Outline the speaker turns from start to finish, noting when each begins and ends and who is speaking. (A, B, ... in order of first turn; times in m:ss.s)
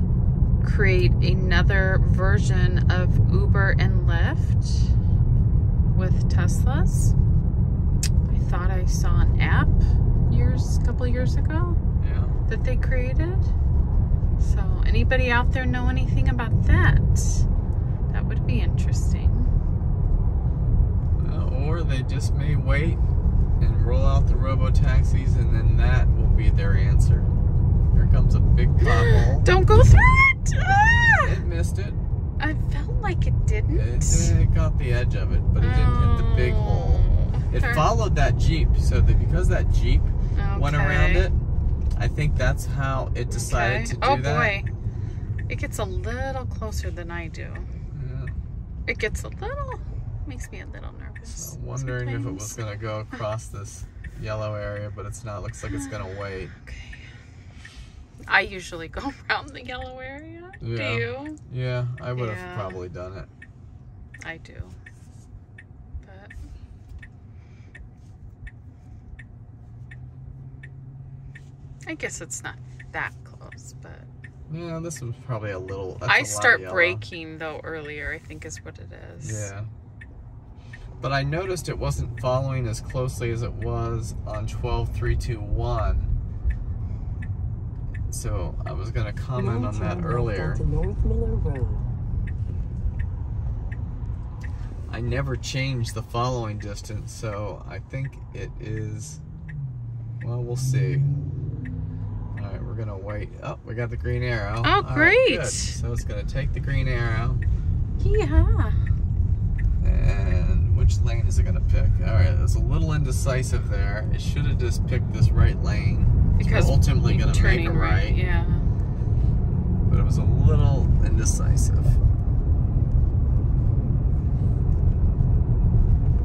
0:00.6-0:04.9 A
0:05.9-0:07.1 A
0:08.3-0:11.8 A
0:12.0-0:12.4 B
0:12.5-0:13.5 A
0:14.4-0:17.5 A
0:18.1-0:19.5 A
0:21.2-0:23.0 B
0:23.6-0:27.3 B
0:27.9-0:29.5 B
0:28.8-0:31.3 A
0:31.1-0:32.0 B
0:32.4-0:34.4 A
0:33.7-0:41.4 B
0:35.6-0:37.9 A
0:40.4-0:41.3 A
0:42.0-0:44.6 B
0:43.3-0:44.7 A
0:45.5-0:47.7 A
0:47.9-0:48.4 B
0:48.9-0:52.6 A
0:51.2-0:56.5 B
0:55.7-0:57.0 A
0:58.3-1:01.4 A
1:00.6-1:03.3 B
1:02.1-1:02.8 A
1:04.2-1:04.8 A
1:06.0-1:06.3 A
1:11.9-1:14.1 A
1:14.5-1:17.0 B
1:16.1-1:19.5 A
1:19.2-1:19.7 B
1:21.0-1:26.2 B
1:28.1-1:30.6 B
1:29.3-1:31.9 C
1:34.9-1:39.2 B
1:40.2-1:41.1 B
1:42.3-1:47.4 B
1:44.6-1:45.8 A
1:48.0-1:48.8 A
1:49.8-1:58.2 B
1:56.4-1:58.7 A
1:59.9-2:02.0 B